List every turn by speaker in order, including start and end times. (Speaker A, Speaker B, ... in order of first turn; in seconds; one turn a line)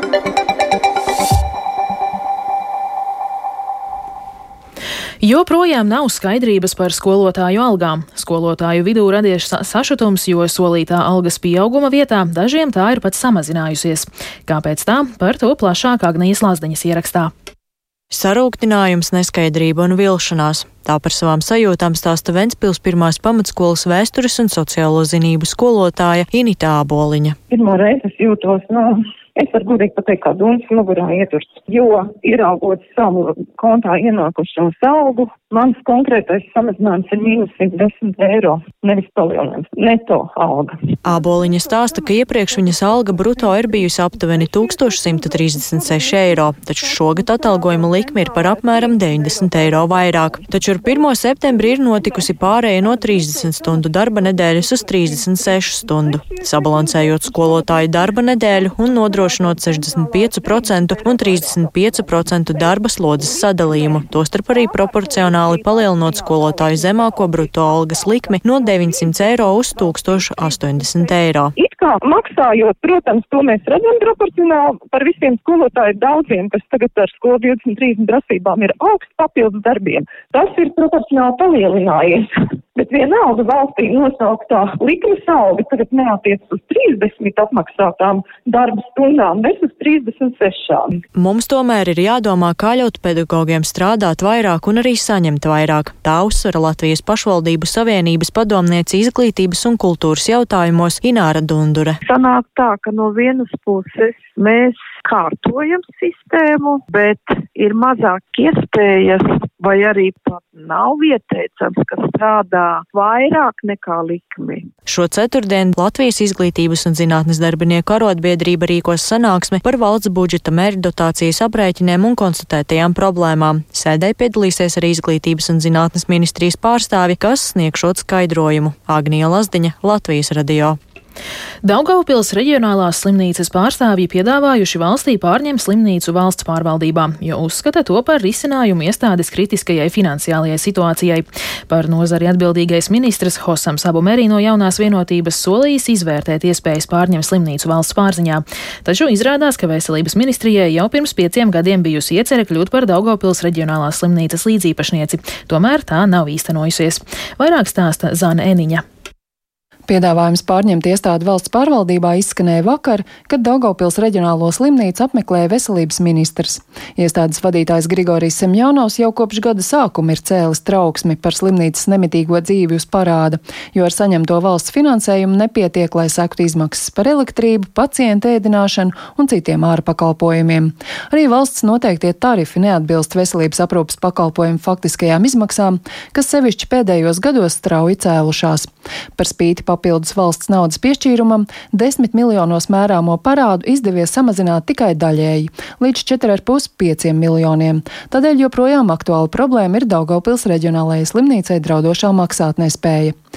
Speaker A: 5.2-17.3
Speaker B: 18.1-27.4
Speaker C: 27.5-40.7
Speaker B: 41.0-71.5
Speaker C: 71.6-91.0
Speaker B: 91.2-102.0
Speaker D: 102.0-114.7
Speaker B: 114.9-130.8
Speaker A: 131.6-158.8
Speaker E: 159.9-203.2